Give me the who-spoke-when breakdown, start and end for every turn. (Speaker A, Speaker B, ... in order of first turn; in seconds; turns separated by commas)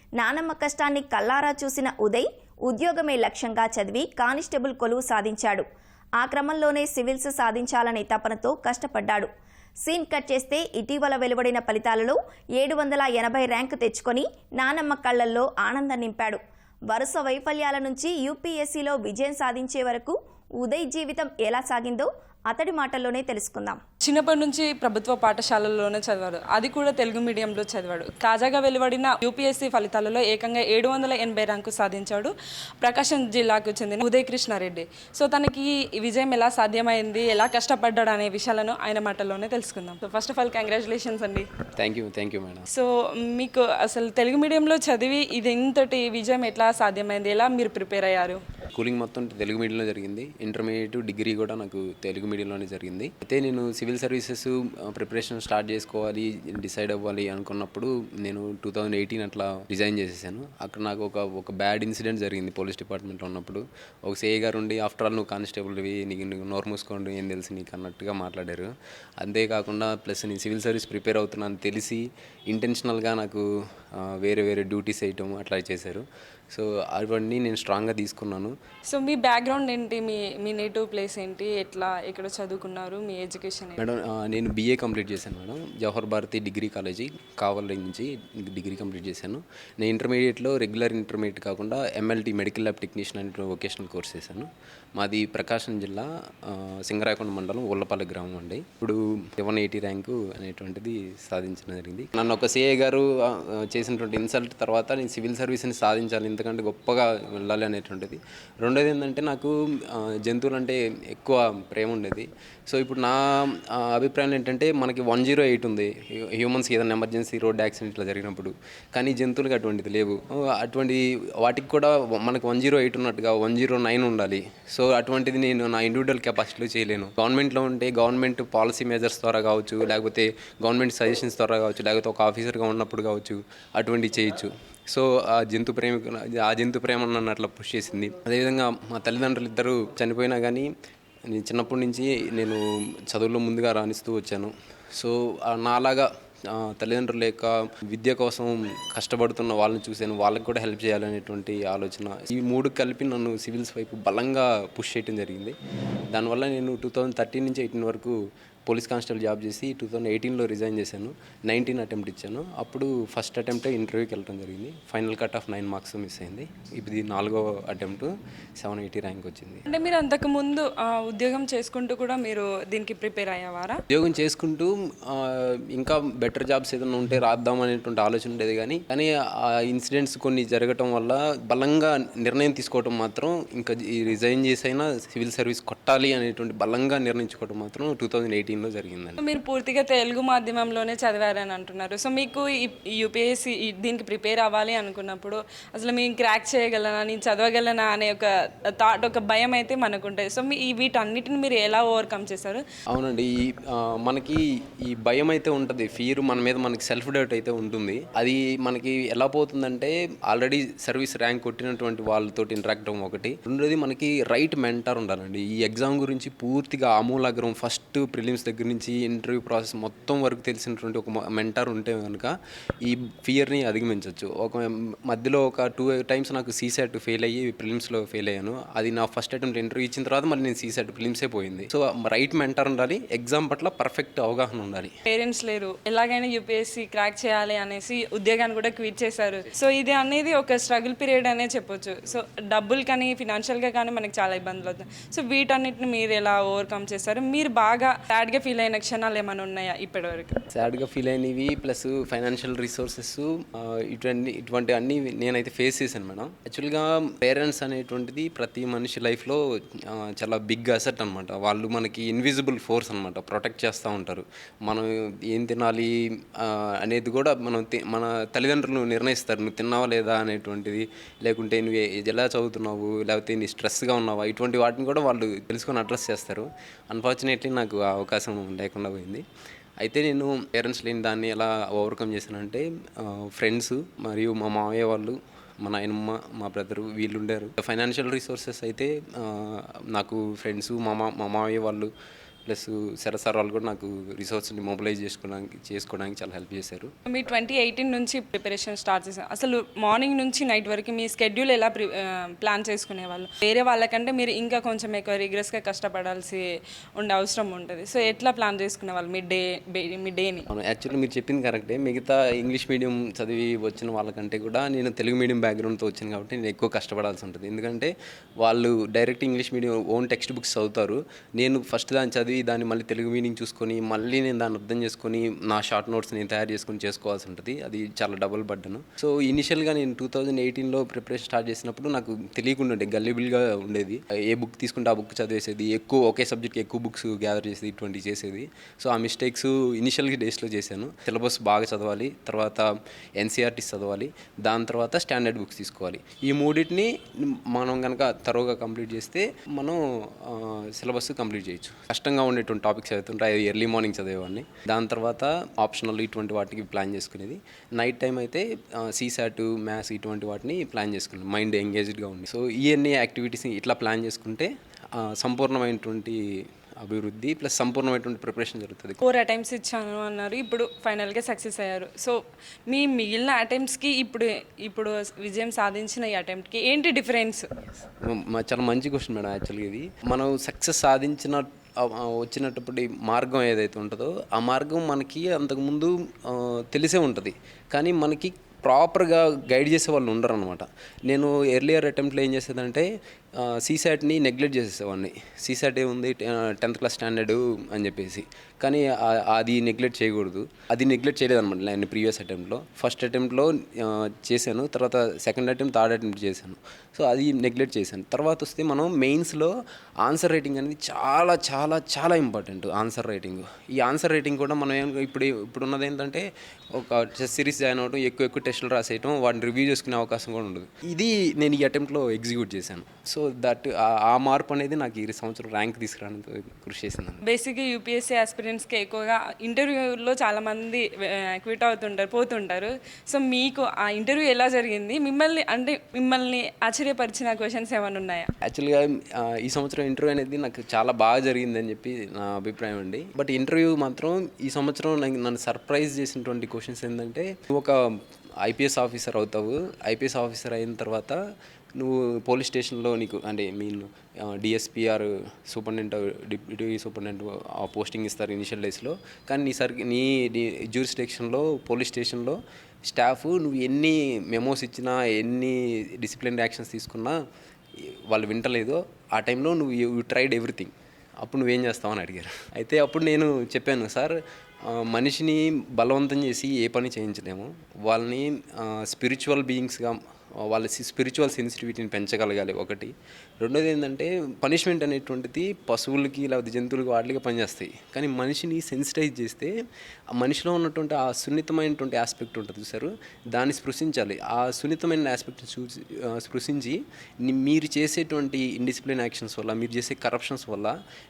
Speaker A: 0.2-5.7, Speaker A: 6.2-9.3, Speaker A: 9.8-23.8, Speaker B: 24.0-41.5, Speaker C: 41.8-42.7, Speaker B: 42.7-48.4, Speaker C: 48.7-78.5, Speaker B: 78.9-83.8, Speaker C: 83.8-140.7, Speaker C: 141.3-155.6, Speaker C: 156.1-169.6, Speaker B: 169.7-173.8, Speaker C: 173.9-189.2, Speaker B: 189.2-202.6, Speaker C: 202.9-234.9, Speaker B: 235.1-250.5, Speaker C: 250.5-279.2, Speaker C: 279.8-291.9, Speaker C: 292.5-296.9, Speaker B: 297.1-306.4, Speaker B: 307.0-310.5, Speaker C: 310.5-366.2, Speaker C: 366.8-369.0, Speaker B: 369.0-377.8, Speaker C: 378.0-427.2, Speaker B: 427.2-438.3, Speaker C: 438.4-451.2, Speaker C: 451.8-467.2, Speaker C: 468.1-489.5, Speaker C: 490.1-500.7